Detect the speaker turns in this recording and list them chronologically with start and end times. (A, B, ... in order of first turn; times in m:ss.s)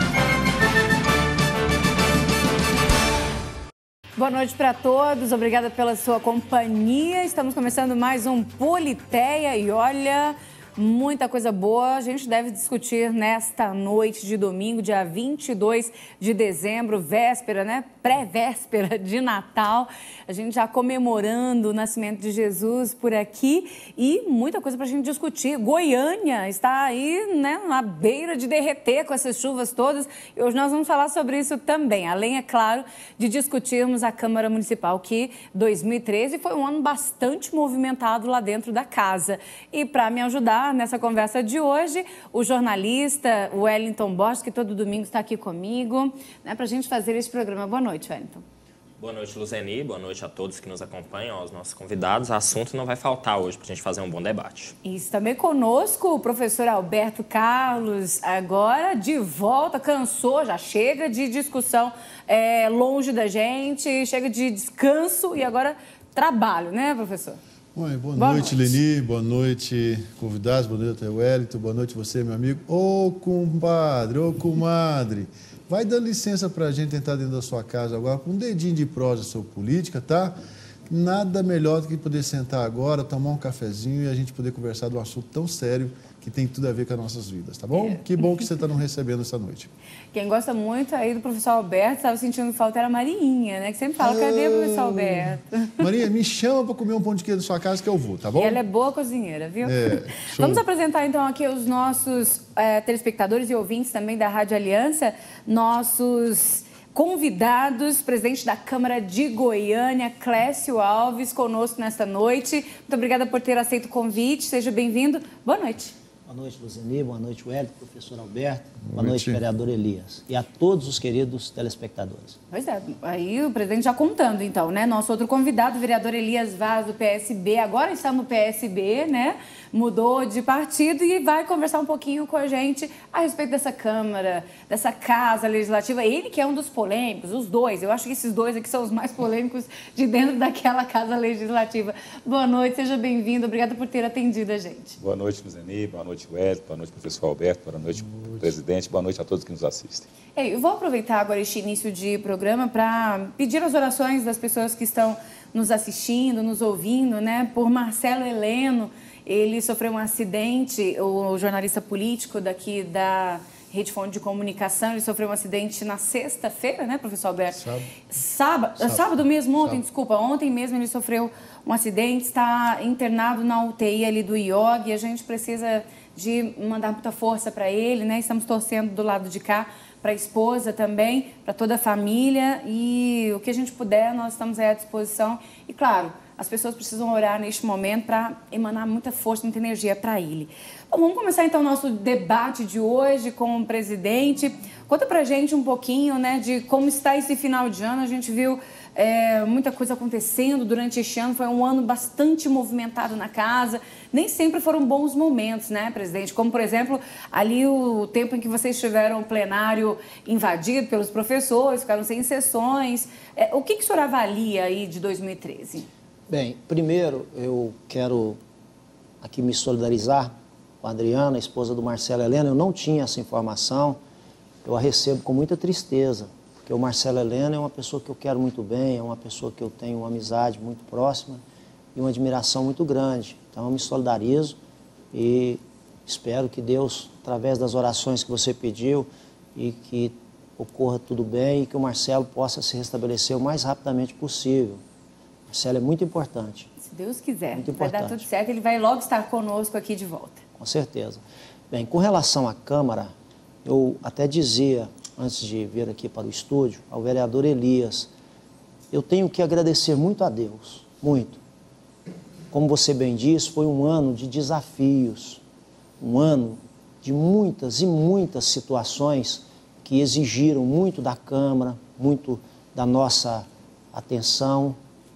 0:04.2-0:48.4 A
0:49.0-0:54.7 B
0:54.8-1:07.4 A
1:07.7-1:20.3 C
1:08.2-1:08.7 A
1:20.9-1:29.7 C
1:27.7-1:28.0 A
1:30.1-1:35.8 A
1:34.0-1:38.6 C
1:38.4-1:55.9 A
1:39.6-1:40.6 C
1:56.3-2:02.4 D
1:58.8-1:59.4 C
2:02.5-2:25.0 A
2:25.0-2:30.1 E
2:30.4-3:35.9 A
2:47.6-2:47.9 C
2:48.8-2:49.1 C
3:36.3-3:38.4 D
3:39.2-3:44.0 D
3:44.6-3:51.4 D
3:51.9-3:54.6 D
3:55.1-4:04.8 D
4:05.5-4:06.7 D
4:06.8-4:10.4 A
4:07.5-4:08.2 D
4:10.6-4:13.1 D
4:13.6-4:18.1 D
4:18.9-4:21.4 D
4:22.5-4:25.4 D
4:26.0-4:34.8 D